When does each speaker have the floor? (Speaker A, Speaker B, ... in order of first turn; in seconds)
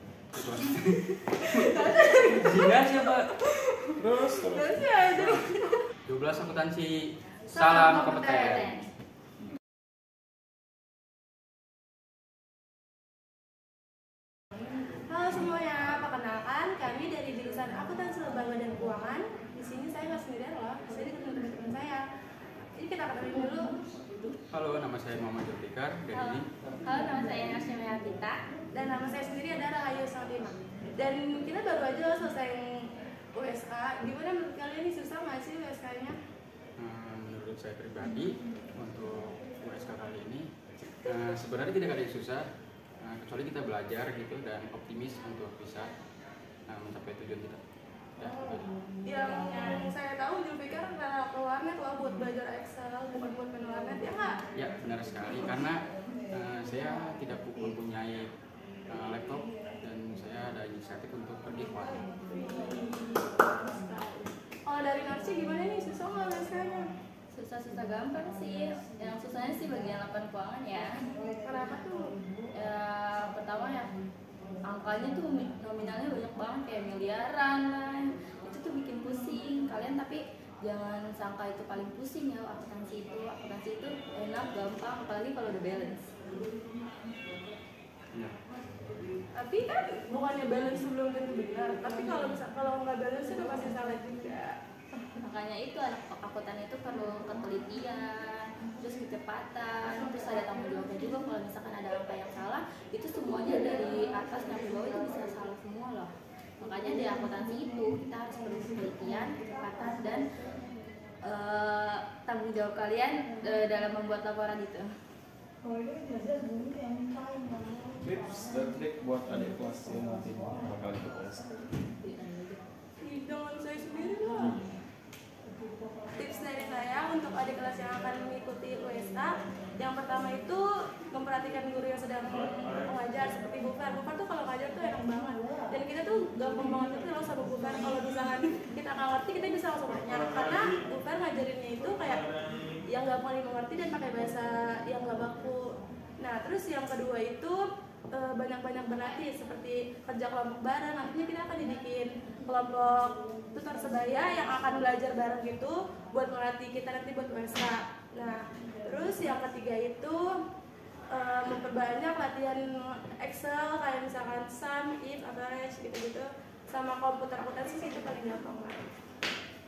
Speaker A: 0.3-3.3, 6.0-7.0, 7.5-8.7, 24.5-26.5, 36.8-40.5, 41.0-42.4, 43.0-45.9, 46.7-47.6, 48.1-48.7, 54.5-58.3, 58.9-62.1
Speaker B: 1.4-5.8, 7.5-8.6, 15.1-22.0, 22.8-24.3, 28.7-36.2, 49.0-54.4, 62.3-66.9, 71.4-72.1, 89.3-94.6, 123.0-124.6, 126.2-142.3, 142.9-160.3, 161.1-168.9
Speaker C: 4.0-4.8, 118.0-121.5
Speaker D: 8.4-8.8, 26.1-28.4, 67.3-70.9, 72.5-73.9, 74.6-86.1, 95.0-110.5, 111.2-114.9, 122.0-122.6